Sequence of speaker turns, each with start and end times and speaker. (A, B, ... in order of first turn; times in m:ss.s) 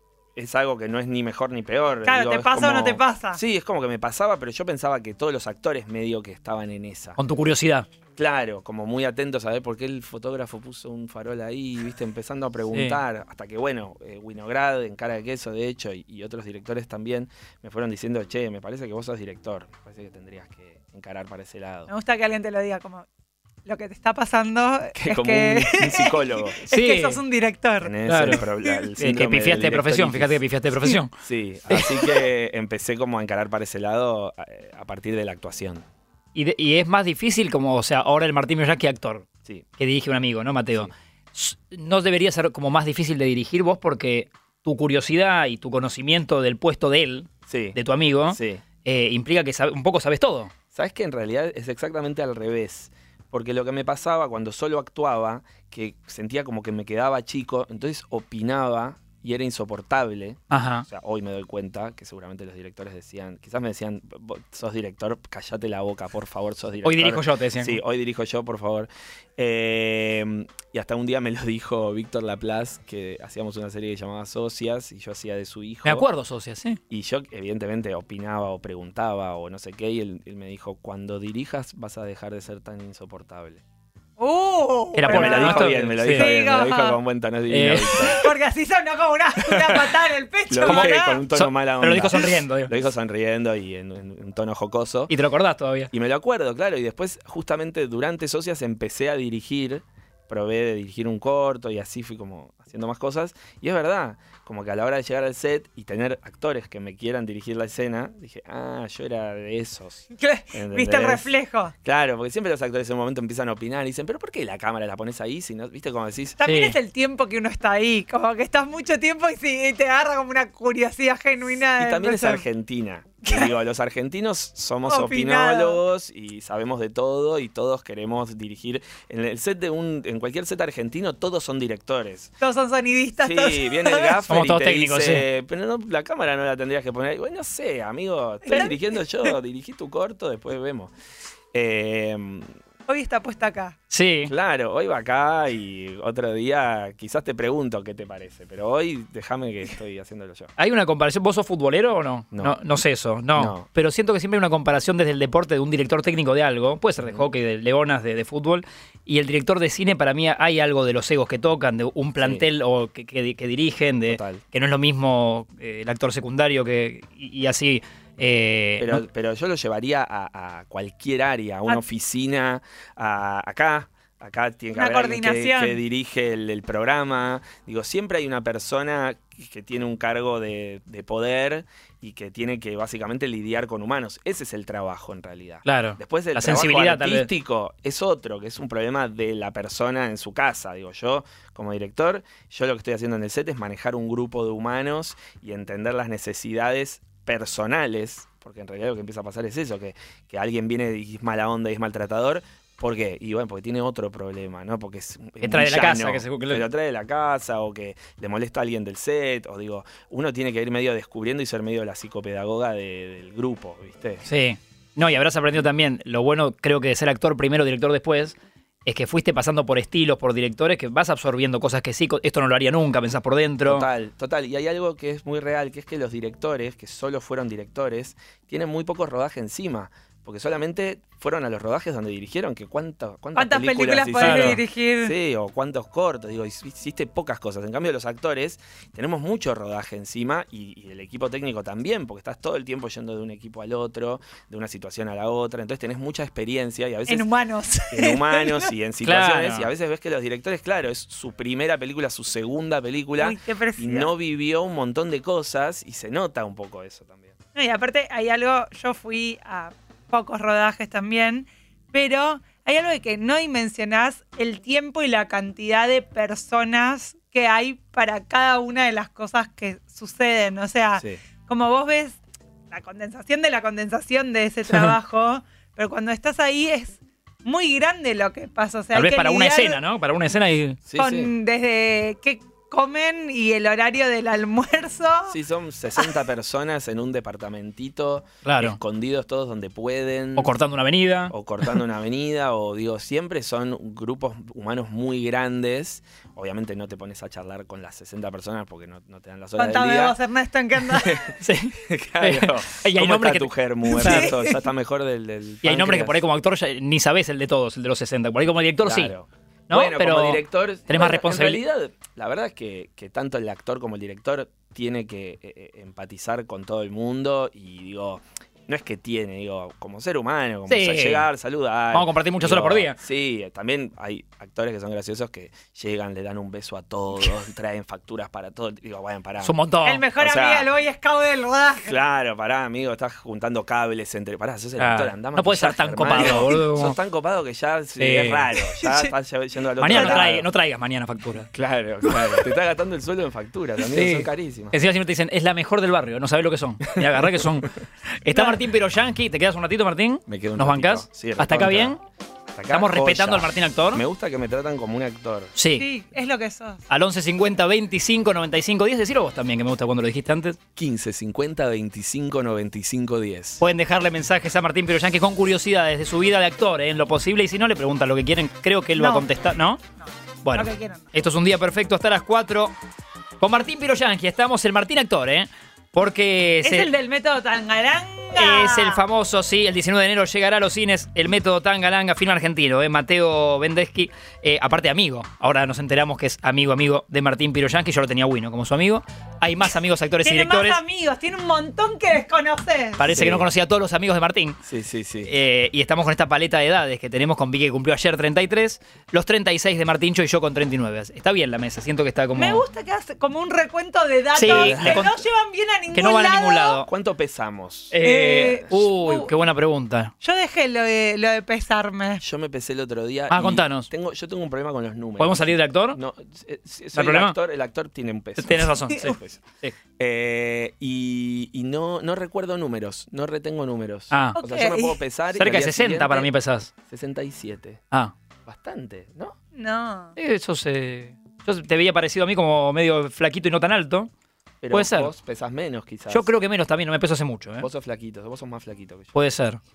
0:00.4-0:07.2 A
0:02.0-0:03.4 B
0:07.2-0:07.9 C
0:08.2-0:21.9 A
0:12.7-0:13.0 C
0:21.9-0:23.0 B
0:23.6-0:28.9 B
0:25.0-0:26.6 A
0:26.7-0:27.2 C
0:27.8-0:30.4 A
0:28.0-0:28.4 C
0:29.0-0:31.1 C
0:31.2-0:35.8 A
0:36.3-0:39.3 C
0:39.8-0:50.5 C
0:47.5-0:47.8 A
0:48.3-0:48.6 A
0:50.7-1:16.0 A
1:00.5-1:00.8 C
1:06.8-1:07.8 C
1:15.8-1:16.8 C
1:16.9-1:23.6 A
1:24.2-1:27.0 B
1:25.0-1:26.3 C
1:25.0-1:28.3 A
1:27.5-1:28.0 C
1:28.0-1:31.2 B
1:29.4-1:29.9 A
1:30.5-1:35.1 A
1:30.6-1:32.7 C
1:35.1-1:35.9 C
1:35.9-1:51.3 A
1:50.2-1:51.7 B
1:51.8-1:56.4 A
1:56.4-2:02.4 B
1:56.4-1:56.8 C
2:01.8-2:12.3 A
2:03.2-2:03.5 B
2:04.8-2:05.8 B
2:12.4-2:14.2 B
2:13.2-2:20.9 A
2:14.3-2:15.2 C
2:18.4-2:19.3 B
2:21.5-2:22.5 A
2:22.9-2:23.8 B
2:23.9-2:24.3 C
2:24.3-2:30.5 A
2:30.6-2:49.0 C
2:33.3-2:33.7 A
2:37.0-2:37.3 A
2:42.2-2:42.4 A
2:44.1-2:44.4 A
2:48.8-3:34.2 A
2:54.7-2:55.8 B
3:05.6-3:07.3 C
3:25.4-3:26.7 C
3:34.2-3:43.9 C
3:43.6-4:07.3 A
3:53.4-3:55.1 B
3:54.2-3:54.6 C
4:07.1-4:08.7 B
4:07.9-4:17.3 A
4:09.0-4:09.7 C
4:13.2-4:14.1 B
4:17.5-4:32.2 B
4:32.7-4:39.8 B
4:38.9-4:40.8 C
4:40.8-4:41.3 A
4:41.0-4:45.4 B
4:45.3-4:50.5 A
4:48.4-4:48.8 C
4:50.4-4:51.7 C
4:51.3-5:00.2 A
4:59.6-5:01.3 B
5:01.0-5:06.2 A
5:01.4-5:04.3 C
5:03.9-5:04.6 B
5:05.6-5:09.1 C
5:08.8-5:29.5 A
5:09.7-5:11.6 C
5:20.7-5:21.3 C
5:21.9-5:23.0 C
5:29.4-5:30.0 C
5:29.8-5:31.9 B
5:30.2-5:30.7 A
5:31.8-5:40.5 A
5:34.8-5:37.0 C
5:38.0-5:38.5 C
5:38.7-5:39.1 B
5:39.8-5:41.5 C
5:39.9-5:40.2 B
5:41.5-5:44.8 A
5:43.8-5:52.0 C
5:47.0-5:47.6 A
5:48.3-5:48.6 B
5:50.3-5:52.0 A
5:52.5-5:55.5 A
5:52.7-5:54.0 C
5:55.5-5:55.9 C
5:55.8-5:56.8 B
5:56.9-6:00.6 C
6:00.8-6:03.6 A
6:03.6-6:09.8 C
6:09.0-6:09.3 B
6:10.4-6:12.7 C
6:10.5-6:11.1 B
6:13.4-6:16.9 C
6:16.6-6:19.0 B
6:18.3-6:30.8 C
6:30.2-6:33.1 B
6:33.0-6:34.6 C
6:33.1-6:33.5 A
6:34.6-6:35.3 A
6:35.2-6:42.6 C
6:42.4-6:46.8 B
6:44.3-6:45.1 C
6:44.5-6:45.1 A
6:45.9-6:46.9 C
6:46.8-6:48.0 A
6:47.9-6:50.1 C
6:48.0-6:49.3 B
6:50.2-6:52.2 B
6:52.2-6:59.4 A
6:53.3-6:53.9 C
6:55.2-6:56.0 C
6:56.9-6:57.4 C
6:58.4-6:59.7 C
7:00.0-7:06.3 A
7:04.1-7:04.4 C
7:04.4-7:05.0 B
7:05.3-7:06.7 C
7:06.9-7:07.8 A
7:08.4-7:09.4 A
7:09.5-7:10.1 B
7:10.2-7:14.1 C
7:14.6-7:16.3 A
7:14.7-7:15.1 C
7:16.1-7:17.7 C
7:17.6-7:19.1 A
7:19.1-7:19.6 C